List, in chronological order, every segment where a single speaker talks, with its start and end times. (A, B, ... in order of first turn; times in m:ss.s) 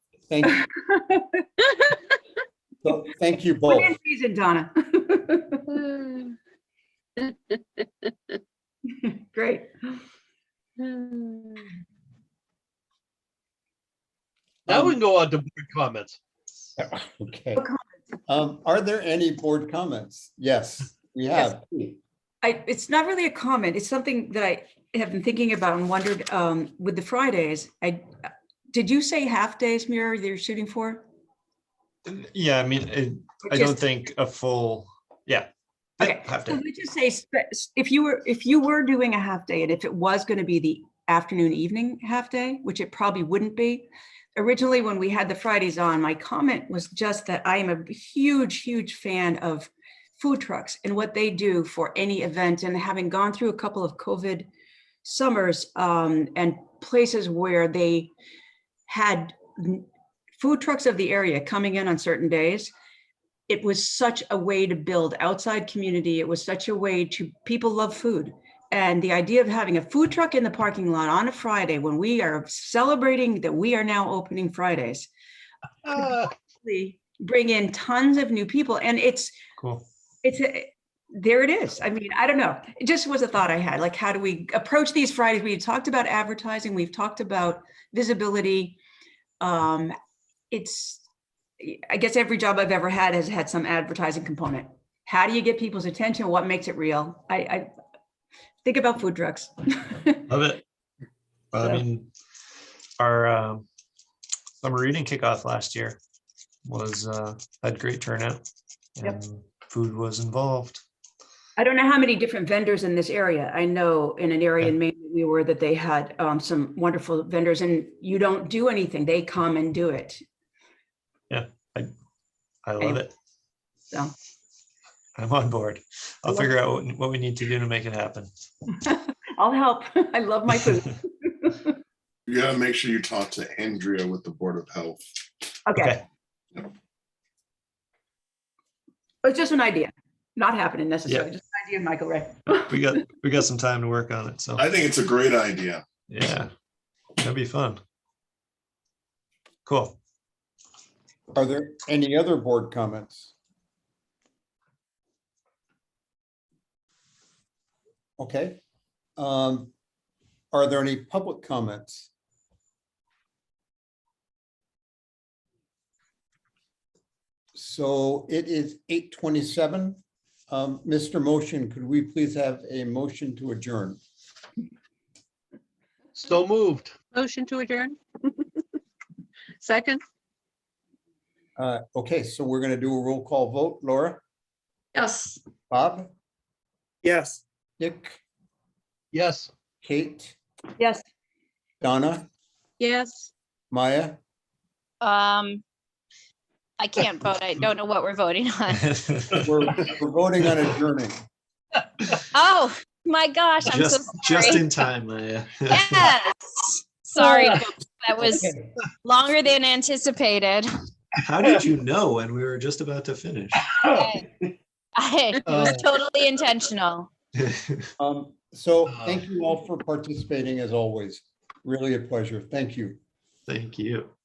0:00.3-0:00.6 A
0:00.5-0:01.8 B
0:02.8-0:04.0 A
0:03.7-0:05.8 B
0:05.7-0:06.3 C
0:07.2-0:07.8 C
0:08.9-0:10.0 B
0:10.8-0:11.7 C
0:14.7-0:16.2 D
0:14.7-0:15.0 A
0:16.8-0:17.7 A
0:18.3-0:22.0 A
0:22.4-0:28.0 B
0:28.7-0:31.0 B
0:32.1-0:35.5 E
0:33.4-0:33.8 B
0:36.0-0:36.6 E
0:36.0-0:54.5 B
0:55.0-0:58.1 B
0:58.9-0:59.9 B
1:00.4-1:02.7 B
1:03.5-1:15.1 B
1:15.9-1:16.3 D
1:15.9-1:19.4 B
1:19.6-1:19.8 E
1:20.2-1:28.8 B
1:29.4-1:29.9 B
1:30.5-1:31.0 B
1:31.6-1:37.7 B
1:38.6-1:40.2 B
1:40.3-1:40.6 E
1:41.5-1:42.1 E
1:43.0-1:43.7 E
1:44.6-1:46.0 E
1:46.6-1:48.4 E
1:49.0-1:50.8 E
1:51.6-2:00.2 B
2:01.3-2:01.9 E
2:02.6-2:03.1 E
2:05.2-2:08.3 E
2:08.8-2:11.8 B
2:12.3-2:15.0 F
2:15.7-2:16.0 B
2:15.8-2:16.0 E
2:19.2-2:23.0 B
2:22.6-2:24.7 E
2:24.6-2:25.8 F
2:26.1-2:26.5 E
2:27.2-2:27.8 E
2:29.7-2:30.0 E
2:31.3-2:33.3 A
2:38.2-2:38.6 A
2:39.2-2:39.7 A
2:40.5-2:42.1 A
2:47.6-2:54.0 A
2:56.2-2:57.0 D
2:57.1-2:58.4 C
2:59.6-3:00.0 C
3:01.6-3:04.2 A
3:05.0-3:05.4 C
3:05.7-3:06.1 A
3:07.8-3:08.2 A
3:09.1-3:09.5 D
3:09.8-3:10.4 A
3:11.8-3:12.3 A
3:12.8-3:13.3 C
3:13.7-3:14.2 A
3:15.0-3:15.6 G
3:16.8-3:18.8 G
3:18.9-3:19.5 E
3:19.4-3:21.2 A
3:22.3-3:24.6 G
3:23.6-3:26.2 E
3:25.7-3:30.7 G
3:28.2-3:28.5 E
3:28.3-3:28.7 A
3:31.2-3:33.8 E
3:33.8-3:34.3 G
3:35.0-3:37.1 G
3:35.4-3:35.9 D
3:37.4-3:37.9 E
3:38.0-3:43.0 A
3:38.9-3:39.2 D
3:43.5-3:44.1 E